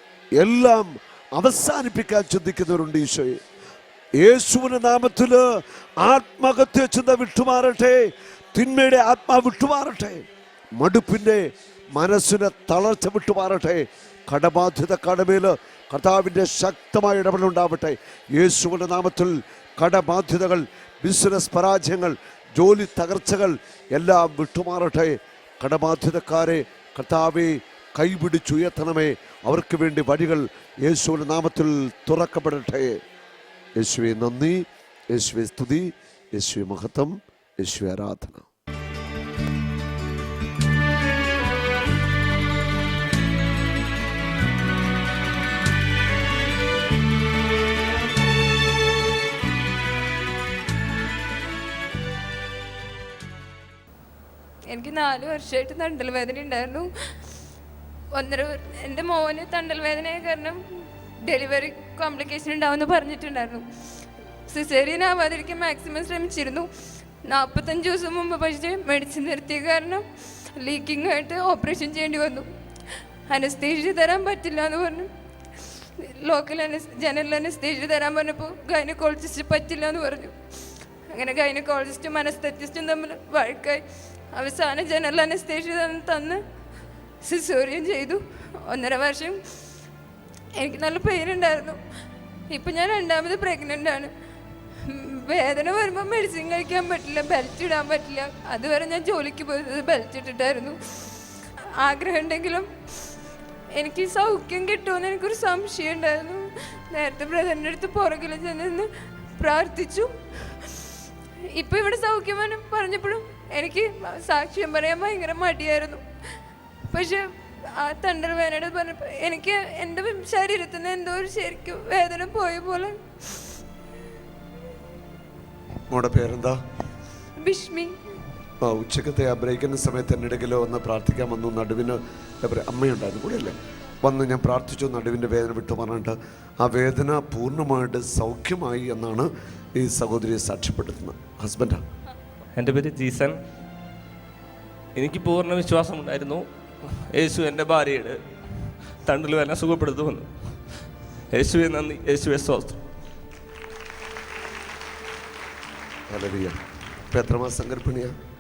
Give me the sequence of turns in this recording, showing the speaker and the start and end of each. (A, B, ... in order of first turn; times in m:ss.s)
0:00.4-0:03.4 A
0:04.2-0:05.5 A
0:06.0-0:10.3 A
0:10.8-0:33.0 A
0:33.8-0:38.5 A
0:54.7-0:56.9 B
0:58.1-1:00.6 B
1:01.2-1:03.7 B
1:04.5-1:06.7 B
1:07.2-1:10.0 B
1:10.6-1:12.5 B
1:13.3-1:15.1 B
1:16.0-1:20.4 B
1:21.1-1:26.4 B
1:27.2-1:29.4 B
1:30.6-1:31.8 B
1:32.5-1:34.1 B
1:34.8-1:41.2 B
1:41.8-1:43.1 B
1:43.7-1:51.0 B
1:51.5-1:56.0 B
1:56.9-2:03.5 B
2:05.9-2:06.6 A
2:07.4-2:08.0 B
2:08.6-2:21.8 A
2:22.6-2:23.4 C
2:25.0-2:28.2 C
2:29.1-2:30.5 C
2:31.3-2:32.8 C
2:36.1-2:38.2 A